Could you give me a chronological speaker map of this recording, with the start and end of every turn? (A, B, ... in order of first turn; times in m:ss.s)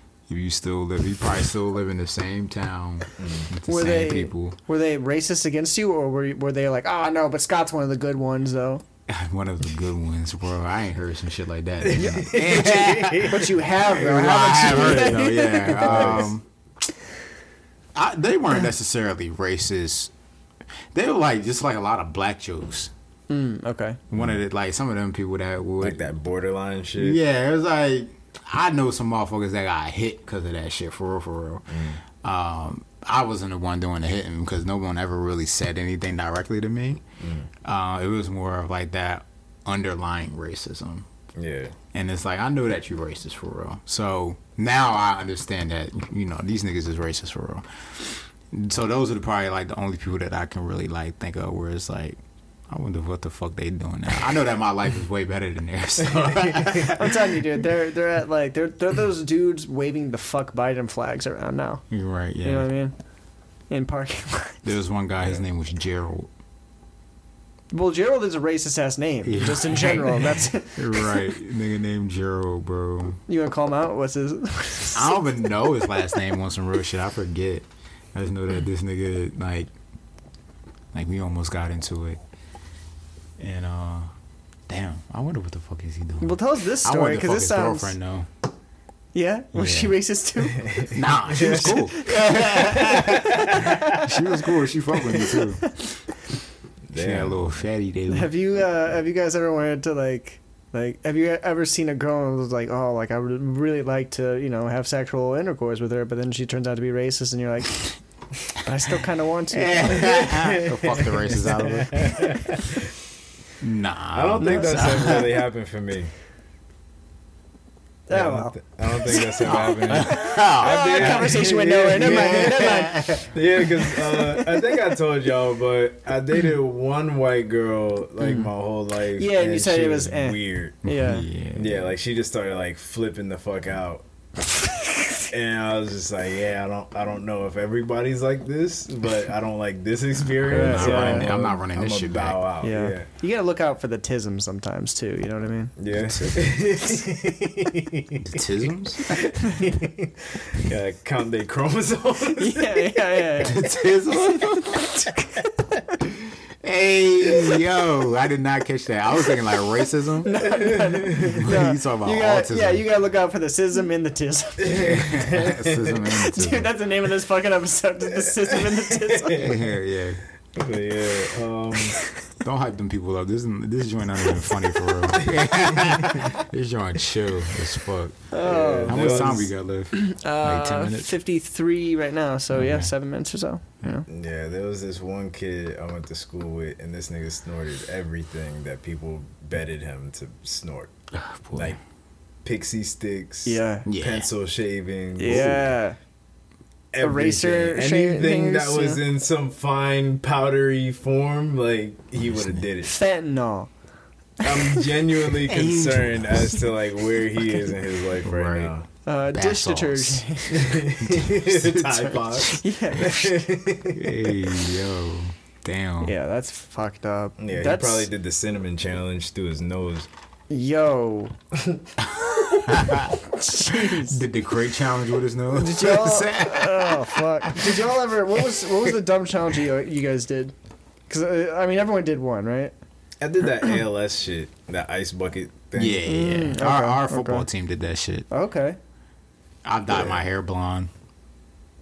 0:00.3-0:04.6 A
0:03.2-0:03.5 B
0:03.7-0:08.8 C
0:09.1-0:16.4 A
0:11.8-0:13.5 B
0:12.0-0:16.2 C
0:15.8-0:16.3 B
0:17.9-0:20.1 A
0:20.9-0:22.9 A
0:23.3-0:24.0 C
0:24.1-0:26.0 A
0:25.8-0:27.2 B
0:27.0-0:37.0 A
0:31.7-0:32.0 B
0:37.2-0:37.5 B
0:37.6-0:41.1 A
0:41.4-0:41.8 B
0:41.9-0:52.2 A
0:52.7-0:57.5 A
0:56.1-0:56.9 B
0:56.8-1:01.8 C
1:01.9-1:02.7 A
1:02.4-1:02.9 C
1:03.7-1:04.6 C
1:04.6-1:06.3 A
1:07.7-1:11.2 C
1:09.2-1:13.2 A
1:13.3-1:15.9 C
1:14.9-1:19.7 A
1:20.9-1:22.2 A
1:23.4-1:24.1 A
1:24.7-1:28.3 A
1:26.2-1:28.0 C
1:29.1-1:34.3 C
1:29.5-1:30.0 A
1:30.6-1:31.8 B
1:30.9-1:35.6 A
1:35.0-1:36.0 C
1:36.9-1:37.4 B
1:37.0-1:38.3 A
1:38.1-1:47.9 C
1:48.5-1:50.1 C
1:49.5-1:52.2 A
1:49.9-1:52.8 B
1:53.6-1:55.4 A
1:54.1-1:56.1 B
1:54.4-1:55.2 C
1:58.1-1:58.5 C
1:58.1-2:10.8 B
1:59.1-2:03.2 C
1:59.4-2:01.4 A
2:02.0-2:03.3 A
2:03.9-2:04.8 C
2:08.2-2:08.5 C
2:09.2-2:11.3 C
2:10.8-2:11.9 A
2:11.6-2:14.0 B
2:14.6-2:15.1 C
2:15.3-2:23.1 B
2:20.4-2:22.4 A
2:20.5-2:21.4 C
2:22.6-2:25.7 C
2:25.8-2:28.4 B
2:26.1-2:26.5 A
2:28.2-2:29.2 A
2:29.1-2:33.3 B
2:29.4-2:29.8 C
2:32.4-2:33.7 C
2:33.4-2:34.8 A
2:34.2-2:35.4 C
2:36.6-2:40.4 A
2:40.2-2:45.1 C
2:40.4-2:41.4 B
2:41.2-2:42.9 A
2:44.6-2:46.0 B
2:44.8-2:46.7 A
2:46.1-2:49.5 C
2:48.3-2:49.6 B
2:49.3-2:50.2 A
2:50.6-2:52.0 B
2:52.4-2:58.2 A
2:55.2-2:56.3 B
2:58.3-2:59.4 C
2:58.4-2:59.5 B
2:58.9-3:01.1 A
2:59.9-3:04.1 C
3:02.5-3:02.9 A
3:04.1-3:10.9 B
3:11.1-3:11.8 A
3:11.5-3:11.8 B
3:12.4-3:15.7 B
3:13.5-3:13.9 C
3:13.9-3:14.3 A
3:15.2-3:16.0 C
3:16.9-3:23.0 B
3:17.0-3:19.0 C
3:22.3-3:22.6 A
3:22.9-3:23.7 C
3:24.4-3:28.9 B
3:24.4-3:24.9 C
3:25.4-3:26.6 A
3:28.2-3:28.7 A
3:29.1-3:31.0 C
3:29.3-3:30.2 A
3:30.5-3:34.2 B
3:31.0-3:32.6 A
3:32.4-3:33.6 C
3:33.9-3:36.2 A
3:36.0-3:38.1 C
3:37.4-3:40.1 B
3:40.5-3:41.3 C
3:42.0-3:48.8 A
3:42.9-3:44.2 C
3:45.6-3:50.5 C
3:51.1-3:52.7 C
3:53.2-3:56.0 B
3:55.8-3:58.3 A
3:56.1-3:57.5 C
3:58.3-3:58.8 C
3:59.6-4:00.9 A
3:59.9-4:00.2 B